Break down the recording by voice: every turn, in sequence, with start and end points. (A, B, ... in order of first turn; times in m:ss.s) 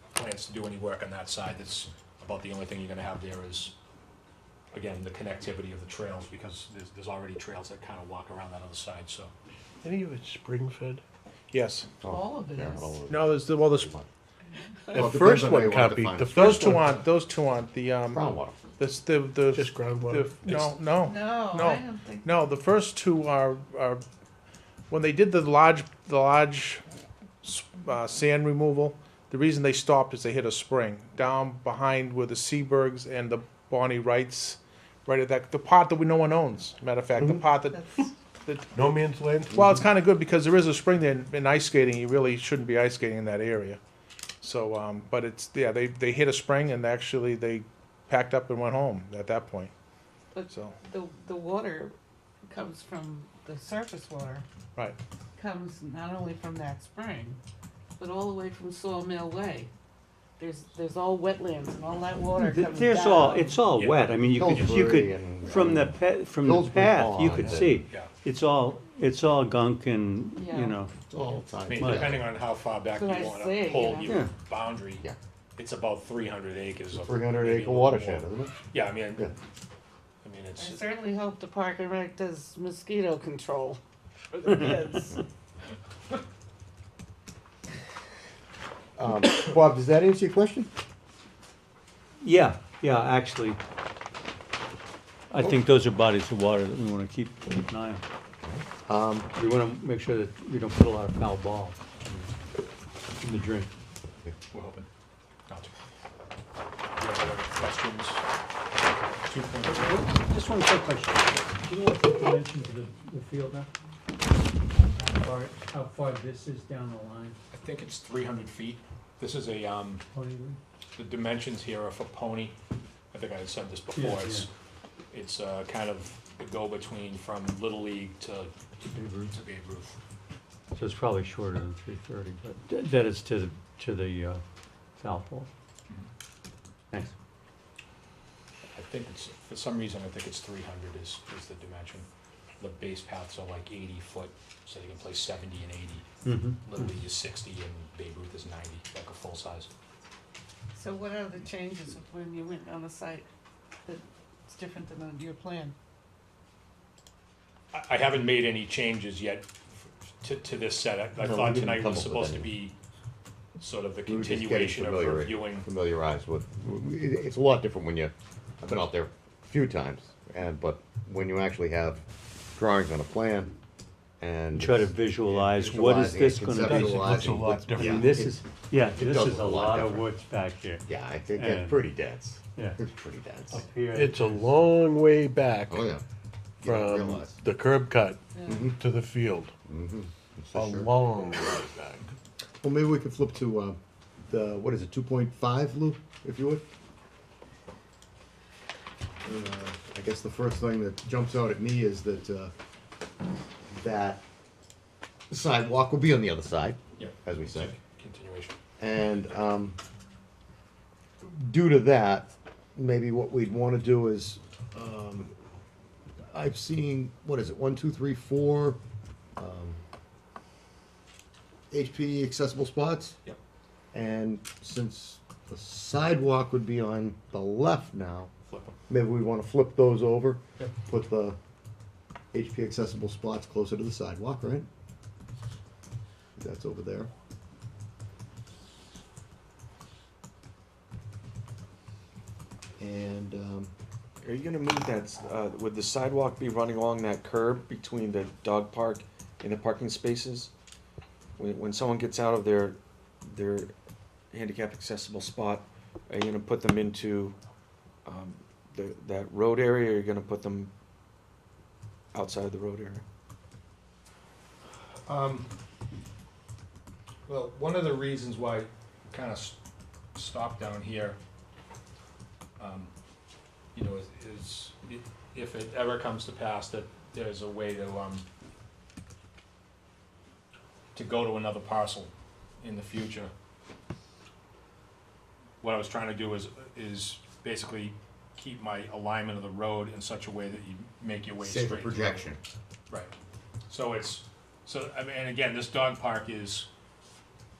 0:00.2-0:03.7 A
0:04.7-0:09.3 A
0:09.8-0:11.0 B
0:11.5-0:11.9 C
0:12.0-0:14.1 D
0:12.0-0:13.0 E
0:13.1-0:13.9 C
0:14.9-0:17.0 B
0:15.0-0:16.8 D
0:16.3-0:24.0 C
0:18.1-0:18.6 D
0:19.5-0:20.7 B
0:21.0-0:22.3 E
0:24.9-0:26.8 C
0:27.4-0:37.8 C
0:37.7-0:38.2 E
0:38.7-0:39.6 B
0:39.5-0:43.8 C
0:39.5-0:39.8 D
0:44.4-0:49.7 C
0:50.3-0:51.9 E
0:50.5-0:50.8 C
0:52.5-0:54.4 E
0:55.4-0:57.4 E
0:58.0-0:59.7 E
1:00.4-1:03.6 E
1:02.4-1:10.9 F
1:03.7-1:04.6 A
1:04.4-1:07.8 D
1:10.4-1:10.8 E
1:11.1-1:12.2 D
1:11.6-1:15.0 A
1:11.8-1:12.2 F
1:12.9-1:14.2 E
1:15.6-1:19.3 A
1:17.0-1:18.6 D
1:20.2-1:21.0 A
1:20.6-1:23.8 E
1:24.3-1:25.2 E
1:29.0-1:30.7 D
1:32.2-1:33.6 F
1:35.3-1:38.0 F
1:38.4-1:39.3 D
1:39.4-1:41.8 F
1:43.2-1:43.7 F
1:44.5-1:44.9 A
1:45.5-1:45.7 A
1:47.0-1:48.2 A
1:49.3-1:50.2 A
1:49.6-1:53.7 F
1:54.9-1:57.4 F
1:57.5-2:00.0 A
2:00.1-2:00.6 F
2:01.0-2:02.6 A
2:03.1-2:04.5 A
2:03.9-2:04.5 F
2:05.1-2:08.5 A
2:08.9-2:09.4 F
2:09.3-2:10.0 A
2:10.7-2:14.4 F
2:15.0-2:15.5 F
2:18.8-2:22.1 A
2:22.6-2:29.7 A
2:26.2-2:26.8 F
2:30.7-2:33.3 E
2:33.8-2:35.8 E
2:37.7-2:42.8 A
2:41.2-2:42.6 D
2:43.6-2:45.7 A
2:44.1-2:52.0 D
2:52.6-2:53.5 D
2:54.2-3:00.1 D
2:54.6-3:00.8 F
2:56.6-2:58.3 B
3:00.9-3:03.6 D
3:01.4-3:01.9 F
3:03.5-3:04.5 F
3:03.9-3:05.9 B
3:05.7-3:06.0 D
3:06.6-3:07.4 D
3:06.6-3:09.5 B
3:08.3-3:08.7 E
3:08.5-3:08.8 D
3:09.7-3:10.9 D
3:10.5-3:12.2 B
3:12.6-3:16.7 D
3:19.2-3:22.5 D
3:23.7-3:24.2 D
3:25.3-3:27.8 D
3:27.0-3:28.6 A
3:28.8-3:29.8 D
3:31.2-3:35.3 D
3:36.3-3:38.8 D
3:39.4-3:39.8 D
3:41.7-3:43.2 D
3:43.9-3:48.3 D
3:48.5-3:48.8 A
3:48.9-3:51.4 D
3:52.3-3:54.7 D
3:56.4-3:57.1 D
4:02.8-4:03.7 D
4:04.2-4:10.5 G
4:11.4-4:13.7 G
4:14.3-4:17.4 G
4:18.1-4:20.7 G
4:22.1-4:23.0 G
4:25.1-4:25.5 A
4:27.3-4:29.6 A
4:30.2-4:31.2 A
4:32.6-4:32.9 A
4:33.8-4:38.2 A
4:41.0-4:43.3 A
4:45.6-4:52.3 A
4:51.4-4:52.4 D
4:53.7-4:56.7 A